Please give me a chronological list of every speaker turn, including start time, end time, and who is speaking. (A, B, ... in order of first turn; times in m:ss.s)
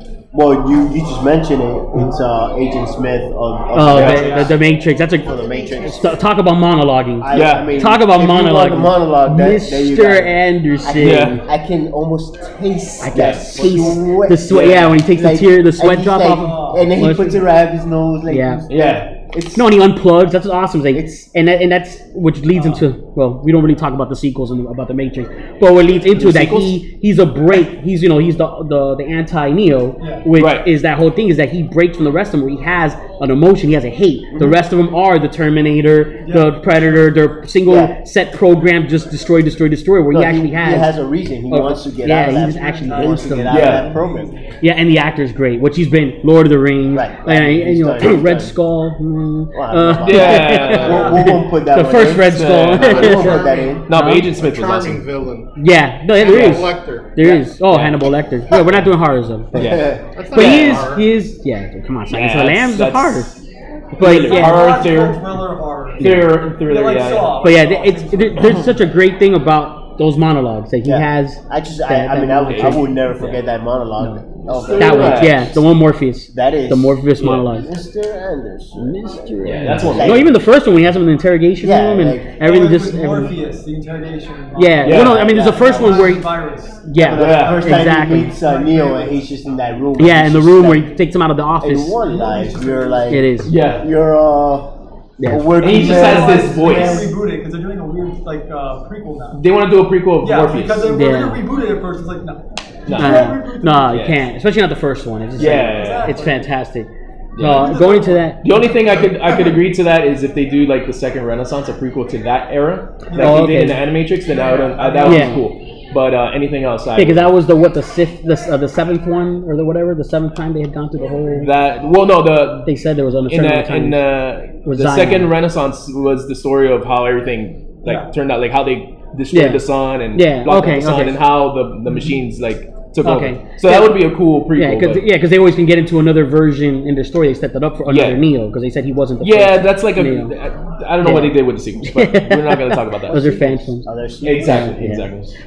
0:00.3-0:04.6 A
0:03.7-0:11.4 B
0:03.9-0:04.3 C
0:04.1-0:04.5 D
0:05.2-0:06.2 A
0:07.2-0:19.7 A
0:07.3-0:07.7 C
0:11.0-0:11.4 C
0:13.0-0:17.4 B
0:13.1-0:13.4 C
0:16.2-0:16.9 D
0:18.3-0:18.6 B
0:18.7-0:19.1 C
0:19.6-0:40.9 B
0:20.9-0:21.2 A
0:22.5-0:22.8 D
0:26.1-0:26.7 C
0:30.0-0:30.3 D
0:30.4-0:30.6 C
0:36.2-0:37.1 D
0:37.7-0:37.9 A
0:40.1-0:44.3 A
0:41.5-0:43.7 B
0:42.3-0:44.6 D
0:43.5-0:43.9 C
0:44.6-0:54.3 B
0:46.9-0:48.6 A
0:49.5-0:53.8 A
0:50.0-0:51.3 C
0:50.8-0:51.2 D
0:52.1-0:55.0 C
0:53.2-0:53.8 E
0:54.3-0:55.5 E
0:55.6-0:59.7 B
0:56.2-0:57.1 E
0:56.2-0:56.7 C
0:57.2-0:57.4 A
0:57.7-0:58.1 C
0:59.5-1:00.1 A
0:59.6-1:00.9 C
1:00.1-1:01.1 E
1:00.3-1:03.4 B
1:02.1-1:03.4 C
1:04.0-1:04.6 B
1:04.0-1:05.4 C
1:04.1-1:08.9 D
1:06.0-1:06.3 B
1:06.0-1:07.4 C
1:07.4-1:12.9 B
1:10.8-1:15.6 A
1:12.5-1:13.4 C
1:14.4-1:15.5 C
1:14.8-1:17.7 B
1:16.3-1:20.4 A
1:17.2-1:17.4 C
1:18.8-1:23.3 B
1:19.4-1:20.3 C
1:21.6-1:22.3 A
1:22.4-1:29.3 D
1:24.6-1:26.3 B
1:24.8-1:25.2 C
1:24.9-1:26.0 A
1:26.8-1:28.4 B
1:26.9-1:30.9 A
1:27.1-1:27.6 C
1:30.0-1:32.0 B
1:31.6-1:37.1 A
1:32.0-1:33.2 D
1:33.1-1:33.5 B
1:33.4-1:33.9 C
1:35.2-1:35.5 B
1:35.6-1:37.1 C
1:35.6-1:39.4 D
1:39.3-1:40.9 C
1:40.2-1:44.1 D
1:40.9-1:41.4 B
1:42.9-1:43.4 C
1:43.0-1:48.4 B
1:43.9-1:44.2 C
1:45.4-1:46.2 C
1:45.4-1:46.5 D
1:47.3-1:47.8 C
1:47.4-1:49.1 D
1:48.4-1:57.3 C
1:53.1-1:53.6 D
1:53.2-1:53.8 B
1:54.2-1:55.4 D
1:55.0-1:55.4 B
1:57.0-2:01.5 B
2:01.4-2:02.7 C
2:02.6-2:04.0 B
2:03.3-2:15.0 C
2:04.6-2:05.3 B
2:07.8-2:08.1 D
2:09.3-2:09.6 B
2:10.1-2:11.2 B
2:11.9-2:12.2 D
2:13.0-2:14.0 B
2:14.6-2:20.3 B
2:17.9-2:18.2 C
2:19.2-2:23.3 C
2:21.0-2:23.9 B
2:23.1-2:24.7 A
2:24.2-2:25.3 C
2:24.4-2:25.1 B